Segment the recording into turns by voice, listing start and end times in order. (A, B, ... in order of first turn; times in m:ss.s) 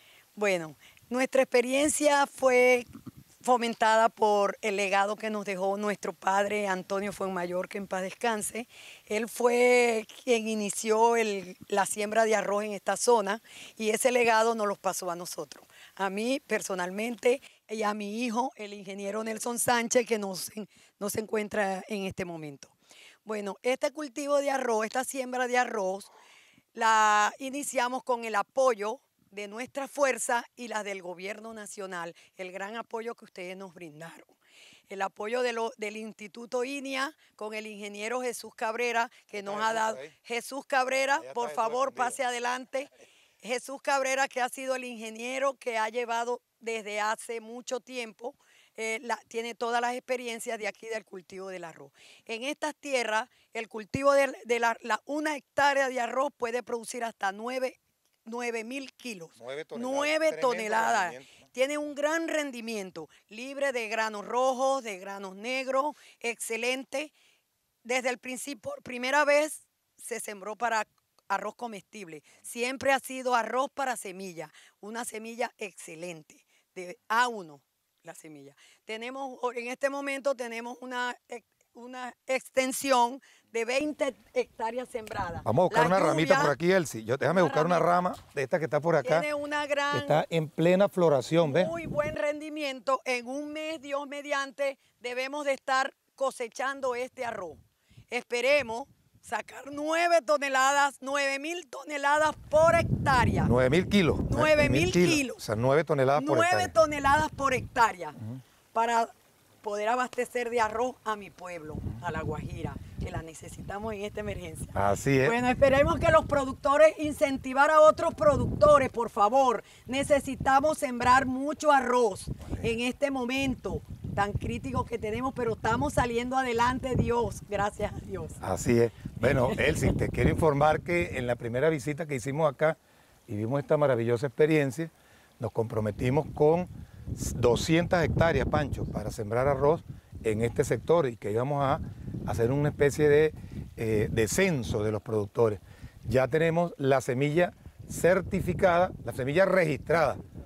0:00.4-0:02.8 A
0:03.4-0:22.7 A
0:23.2-0:26.1 A
0:26.7-0:34.3 A
0:34.9-0:42.9 A
0:39.3-0:40.1 B
0:41.2-0:42.2 B
0:43.4-1:07.1 A
0:59.4-1:01.4 B
1:07.8-1:26.5 A
1:25.4-1:29.3 B
1:27.3-1:27.9 A
1:29.0-1:30.2 A
1:29.9-1:31.7 B
1:31.4-1:43.5 A
1:43.4-1:46.7 B
1:44.3-1:45.4 A
1:46.1-1:48.2 A
1:48.7-1:49.1 A
1:49.6-2:08.4 A
1:54.7-1:55.4 B
2:08.4-2:30.2 B
2:09.2-2:09.9 A